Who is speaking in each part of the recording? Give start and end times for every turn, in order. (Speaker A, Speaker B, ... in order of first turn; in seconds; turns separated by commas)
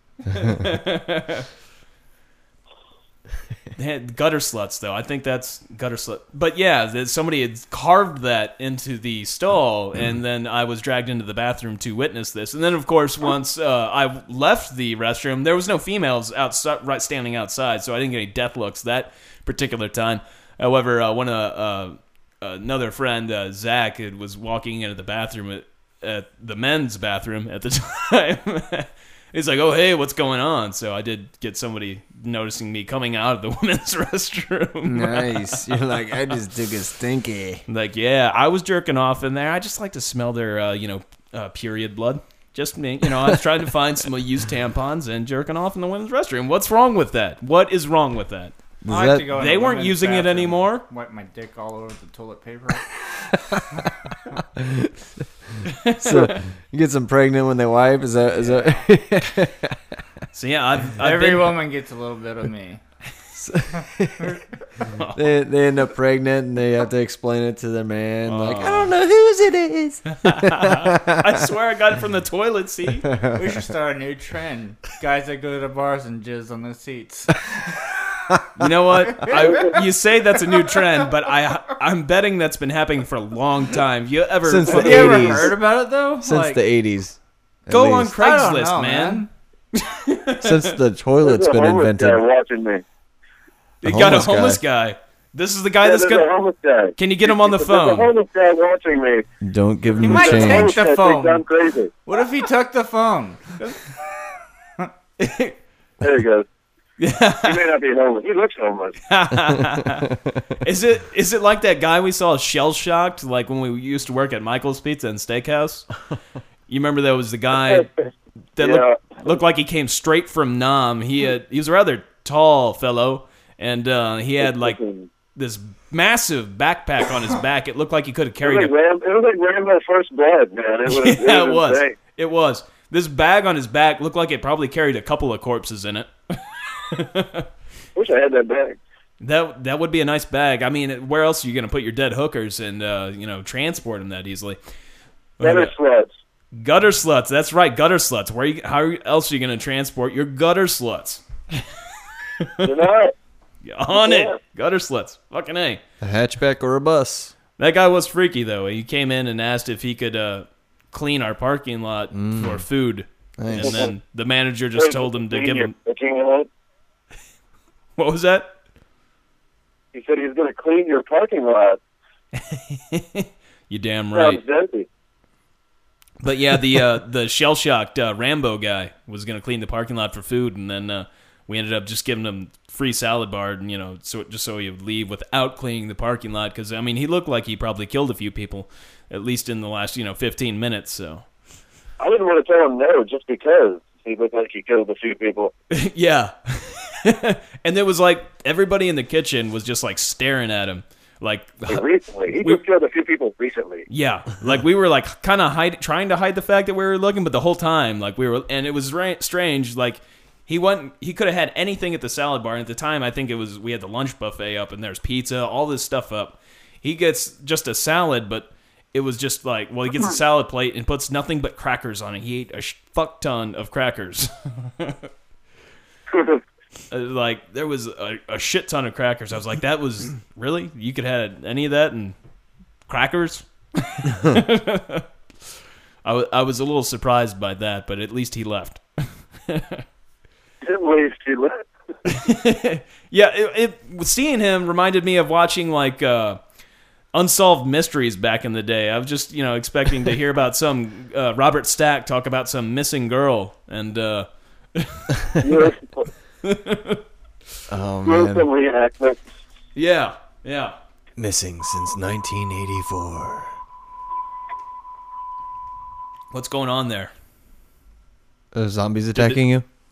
Speaker A: 0.3-0.6, Speaker B: 0.3-1.4, Speaker B: 3.8-35.9, Speaker A: 34.8-37.6, Speaker B: 37.7-48.5, Speaker A: 43.1-43.4, Speaker A: 48.8-49.4, Speaker C: 48.9-52.9, Speaker B: 49.3-50.8, Speaker A: 53.3-54.9, Speaker A: 55.5-60.0, Speaker B: 55.6-56.4, Speaker B: 60.3-61.6, Speaker C: 61.0-62.8, Speaker A: 63.3-64.4, Speaker B: 64.9-65.2, Speaker A: 65.1-71.5, Speaker B: 68.2-68.9, Speaker B: 70.1-73.1, Speaker A: 72.9-73.6, Speaker C: 73.3-78.3, Speaker A: 78.3-78.7, Speaker B: 78.6-85.5, Speaker C: 79.1-79.8, Speaker C: 80.5-80.9, Speaker A: 84.4-85.6, Speaker C: 84.7-86.6, Speaker A: 86.2-88.2, Speaker B: 87.7-90.7, Speaker C: 88.2-89.3, Speaker A: 90.4-92.2, Speaker D: 91.2-92.8, Speaker B: 93.8-96.3, Speaker A: 93.8-94.6, Speaker D: 95.8-99.2, Speaker B: 97.0-98.1, Speaker A: 99.4-100.7, Speaker C: 100.0-101.4, Speaker D: 100.0-101.9, Speaker C: 102.0-103.8, Speaker B: 105.2-105.5, Speaker D: 106.0-106.5, Speaker B: 107.0-107.7, Speaker D: 107.4-109.0, Speaker B: 109.0-115.9, Speaker A: 110.0-110.3, Speaker B: 116.7-117.9, Speaker B: 118.5-124.8, Speaker D: 118.6-119.2, Speaker D: 124.4-125.1, Speaker B: 125.3-128.7, Speaker D: 128.4-131.9, Speaker B: 130.8-137.4, Speaker D: 137.9-138.8, Speaker B: 139.2-144.6, Speaker B: 145.4-145.7, Speaker D: 145.4-146.1, Speaker B: 146.5-151.6, Speaker B: 152.4-152.7, Speaker D: 152.6-153.1, Speaker B: 153.6-155.8, Speaker D: 153.9-154.3, Speaker A: 156.0-157.3, Speaker B: 157.6-165.7, Speaker A: 162.1-162.6, Speaker A: 163.4-163.9, Speaker D: 163.6-163.9, Speaker D: 164.8-166.5, Speaker B: 168.0-168.5, Speaker D: 169.9-171.8, Speaker B: 172.3-174.4, Speaker D: 174.1-174.9, Speaker B: 176.2-191.2, Speaker D: 192.0-195.5, Speaker B: 195.7-202.6, Speaker D: 201.7-203.8, Speaker B: 203.9-225.0, Speaker D: 226.1-226.4, Speaker B: 226.9-232.1, Speaker B: 232.9-235.1, Speaker B: 236.0-238.8, Speaker B: 239.5-239.8, Speaker D: 240.6-241.7, Speaker B: 242.1-246.4, Speaker B: 247.1-255.3, Speaker D: 255.4-256.1, Speaker B: 256.4-257.0, Speaker A: 257.7-258.5, Speaker D: 258.0-259.2, Speaker B: 259.7-260.8, Speaker A: 261.2-263.5, Speaker B: 266.3-267.1, Speaker A: 268.5-269.6